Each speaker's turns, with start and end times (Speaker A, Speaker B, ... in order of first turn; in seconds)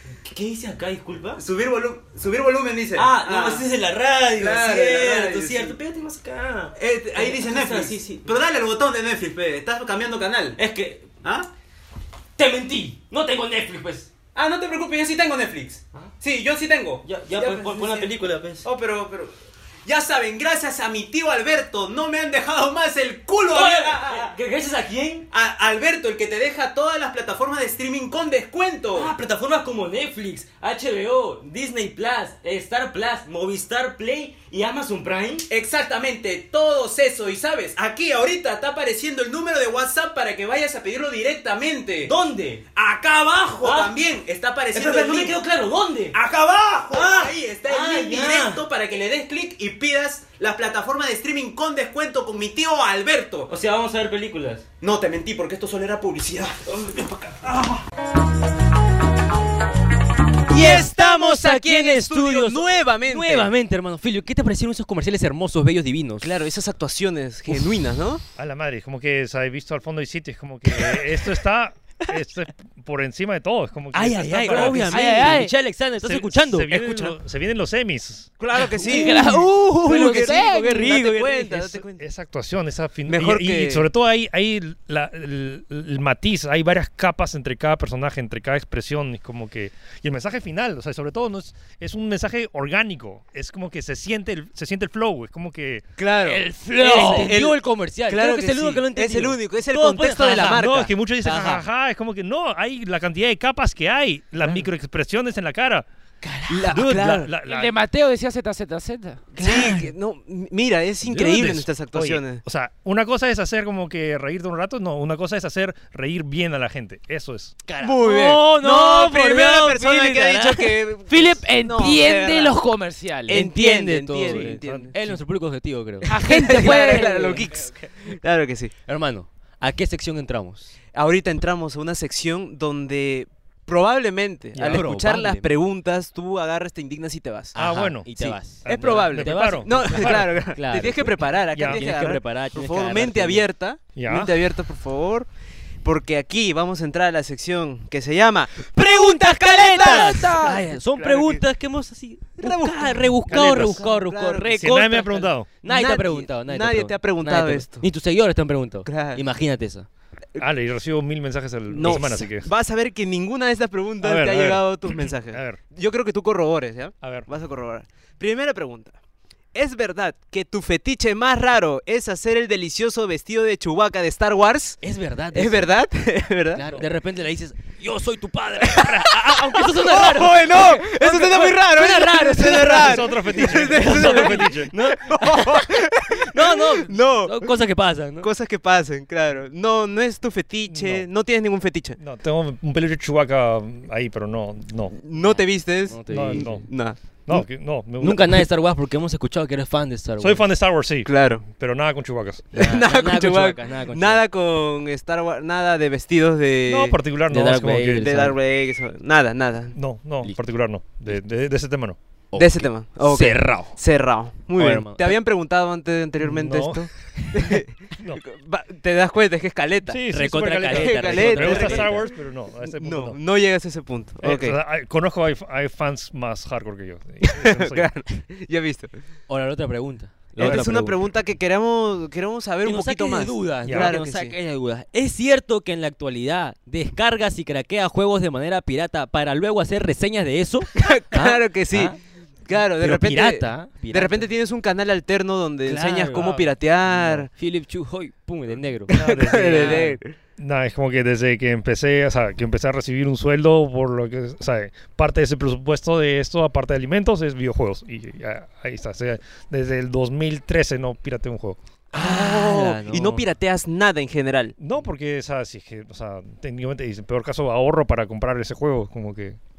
Speaker A: 0.3-1.4, 3.0-8.2, 10.6-11.1, 12.4-13.1, 17.2-18.6, 23.5-25.2, 28.9-35.4, 42.0-43.9, 44.7-48.6, 53.5-54.6, 57.1-57.8
Speaker B: 1.4-3.7, 4.3-5.8, 6.8-10.6, 11.2-11.5, 14.3-18.1, 18.6-19.3, 19.9-24.3, 25.3-29.1, 35.5-42.1, 42.8-45.4, 46.9-53.5, 54.8-57.0, 60.5-63.5, 66.2-68.2, 74.4-75.4, 78.4-82.0, 83.1-83.8, 96.0-100.9, 106.5-107.3, 109.3-112.4, 117.8-122.6, 123.3-124.9, 126.0-128.7, 130.9-137.6, 138.2-145.3, 145.8-151.4, 152.4-154.6, 155.7-157.8, 158.8-159.2, 161.7-168.9, 169.5-174.8, 175.3-176.6, 178.6-187.6, 188.2-192.0, 194.9-197.0, 201.1-201.4, 202.5-207.0, 208.0-209.7, 212.3-220.0, 220.7-222.0, 222.6-224.6, 227.2-228.9, 230.4-234.3, 240.8-241.9, 242.4-247.3, 248.9-250.1, 261.9-264.5
Speaker C: 3.0-6.7, 7.6-8.0, 10.6-11.0, 12.4-14.1, 17.0-18.6, 23.6-25.1, 29.0-35.0, 42.1-42.5, 47.7-48.3, 60.5-66.3, 73.9-77.1, 78.8-81.8, 96.2-100.7, 101.2-101.6, 106.2-106.7, 109.4-109.9, 117.7-120.8, 123.3-127.4, 128.9-130.7, 134.7-135.5, 137.5-143.5, 148.7-159.9, 161.8-162.1, 174.8-175.7, 176.5-188.3, 195.9-196.6, 198.0-200.4, 202.6-204.2, 207.3-208.3, 212.3-213.7, 214.6-215.2, 220.1-222.0, 229.3-231.0, 232.6-241.9, 242.8-244.3, 245.7-246.4, 247.3-249.9, 261.9-263.2
Speaker D: 68.3-75.0, 76.0-78.3, 82.0-95.8, 100.4-105.8, 106.6-107.7, 111.0-117.5, 124.2-125.2, 134.5-134.8, 137.6-140.3, 141.5-142.0, 143.9-144.3, 153.3-153.8, 154.6-155.5, 160.4-162.5, 164.0-165.6, 167.0-167.3, 182.7-184.7, 190.7-191.1, 192.0-194.9, 196.1-196.7, 197.2-198.4, 200.2-202.5, 206.7-208.2, 209.7-212.0, 216.2-218.2, 219.9-223.2, 224.2-227.9, 230.4-230.7, 233.6-233.9, 246.1-247.2, 248.9-261.6, 264.6-269.4
Speaker E: 74.9-75.5, 78.8-81.0, 96.8-97.3, 107.4-109.2, 121.1-123.4, 126.0-127.5, 149.7-150.6